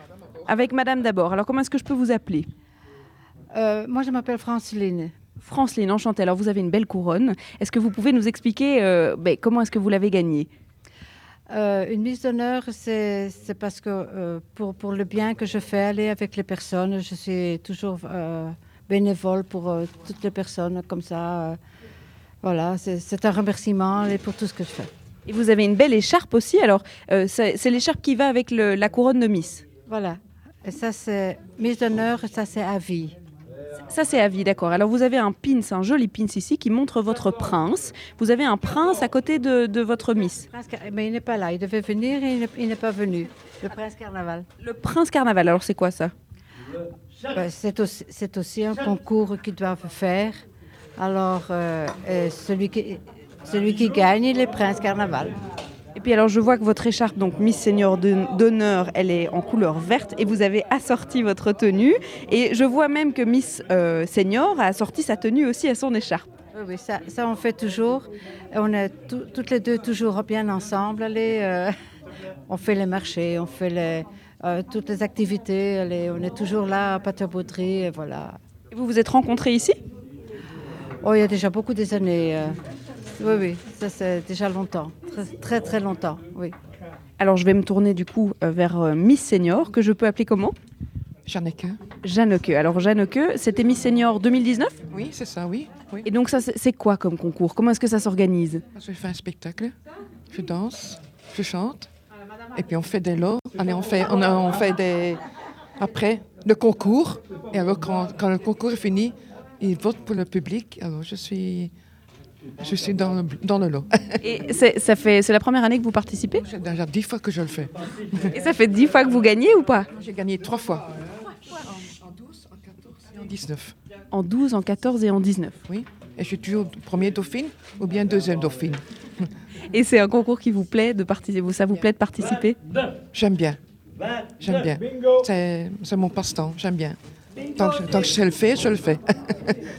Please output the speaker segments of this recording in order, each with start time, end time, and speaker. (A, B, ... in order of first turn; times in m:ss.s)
0:00.5-0:02.5 A
0:03.5-0:05.1 B
0:05.4-0:10.5 A
0:11.5-0:21.6 B
0:22.4-0:24.9 B
0:25.3-0:29.6 A
0:29.9-0:33.2 B
0:33.9-0:40.5 A
0:40.5-0:44.4 B
0:44.6-0:46.1 A
0:47.3-0:50.4 B
0:51.0-0:55.3 B
0:56.0-1:06.3 A
1:06.5-1:11.7 B
1:12.5-1:18.4 B
1:18.7-1:19.8 A
1:21.0-1:22.6 B
1:23.2-1:26.5 B
1:27.2-1:30.5 A
1:31.2-1:31.8 C
1:32.0-1:34.8 A
1:34.9-1:36.0 C
1:36.0-1:38.6 A
1:38.7-1:39.7 C
1:40.3-1:41.9 C
1:42.5-1:45.2 C
1:45.8-1:51.7 C
1:52.6-1:54.0 C
1:54.2-1:56.4 A
1:56.4-1:57.7 C
1:58.3-1:59.9 A
2:00.0-2:00.8 C
2:02.1-2:03.7 C
2:04.1-2:05.6 A
2:05.7-2:09.3 C
2:09.7-2:12.6 A
2:13.1-2:13.6 C
2:14.4-2:17.0 C
2:17.5-2:19.5 C